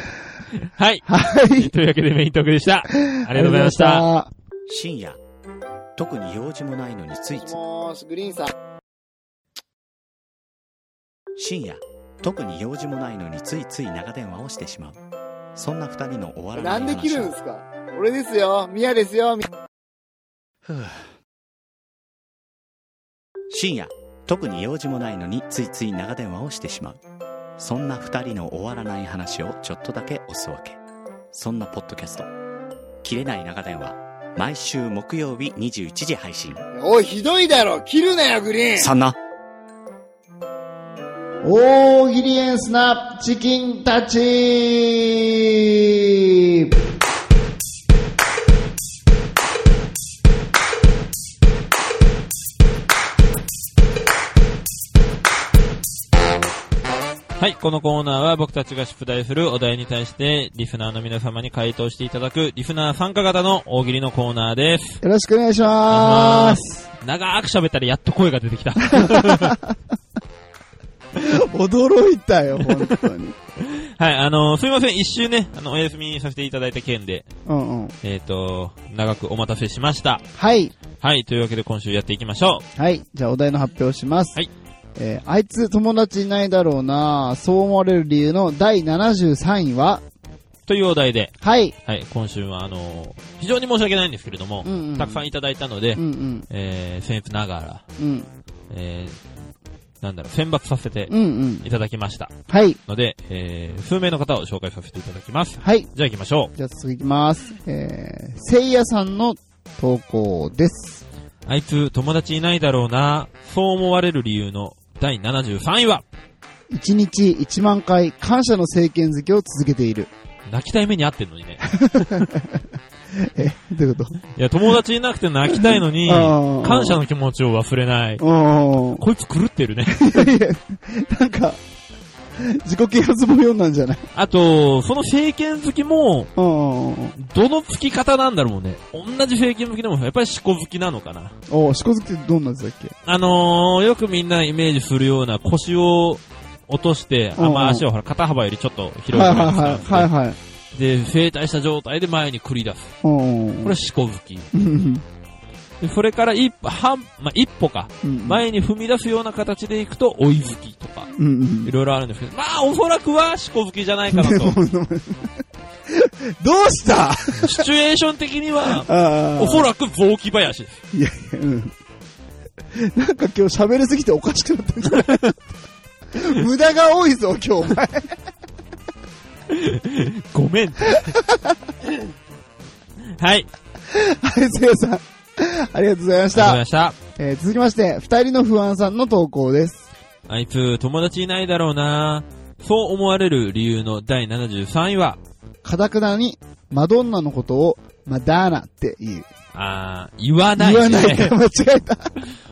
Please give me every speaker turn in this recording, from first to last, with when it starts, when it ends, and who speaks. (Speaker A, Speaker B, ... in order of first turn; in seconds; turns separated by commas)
Speaker A: 0.5-4.1, Speaker B: 1.1-1.7, Speaker B: 3.0-4.3, Speaker C: 4.7-5.2, Speaker C: 6.0-7.6, Speaker B: 7.3-8.5, Speaker C: 11.4-15.0, Speaker C: 15.6-17.3, Speaker B: 16.5-19.5, Speaker C: 20.7-21.1, Speaker C: 23.5-27.0, Speaker C: 27.6-30.8, Speaker C: 31.3-32.3, Speaker C: 33.0-36.6, Speaker B: 36.7-38.9, Speaker C: 38.8-39.2, Speaker B: 41.4-46.8, Speaker A: 57.4-65.0, Speaker B: 65.0-66.9, Speaker A: 65.9-69.6, Speaker B: 68.9-69.7, Speaker B: 71.2-73.4, Speaker A: 73.7-77.3, Speaker B: 77.5-78.0, Speaker A: 78.0-80.2, Speaker B: 80.3-80.7, Speaker A: 81.0-82.7, Speaker B: 82.8-84.4, Speaker B: 85.0-90.0, Speaker A: 90.7-91.3, Speaker B: 91.4-91.8, Speaker A: 91.8-97.8, Speaker B: 94.6-95.2, Speaker B: 96.0-96.5, Speaker B: 98.0-98.3, Speaker A: 98.7-99.2, Speaker A: 100.0-102.3, Speaker B: 101.1-101.7, Speaker B: 102.5-102.8, Speaker A: 102.9-106.5, Speaker B: 105.6-105.9, Speaker B: 106.5-111.0, Speaker A: 111.5-116.0, Speaker B: 116.7-120.1, Speaker A: 120.5-122.2, Speaker B: 121.7-122.6, Speaker B: 123.2-124.2, Speaker A: 124.3-128.2, Speaker B: 125.5-127.0, Speaker B: 128.2-129.0, Speaker A: 128.9-130.3, Speaker B: 129.9-131.6, Speaker B: 132.4-134.1, Speaker A: 134.2-136.3, Speaker B: 136.4-137.2, Speaker A: 137.2-141.3, Speaker B: 141.5-142.9, Speaker A: 143.1-150.1, Speaker B: 147.4-147.8, Speaker B: 149.1-150.4, Speaker A: 150.7-152.9, Speaker B: 153.0-153.8, Speaker A: 153.6-154.5, Speaker B: 154.5-155.0, Speaker A: 155.8-161.1, Speaker B: 158.0-158.4, Speaker B: 161.2-161.7, Speaker A: 161.7-164.6, Speaker B: 164.1-167.6, Speaker A: 167.3-170.8, Speaker B: 168.7-169.7, Speaker B: 170.9-171.7, Speaker B: 172.7-175.3, Speaker A: 175.0-175.3, Speaker B: 176.2-178.2, Speaker A: 179.5-181.2, Speaker B: 180.9-181.6, Speaker A: 183.1-183.5, Speaker B: 183.9-186.6, Speaker A: 186.3-187.0, Speaker B: 187.2-189.9, Speaker A: 190.3-195.2, Speaker B: 195.6-199.3, Speaker A: 199.5-201.4, Speaker B: 200.6-202.1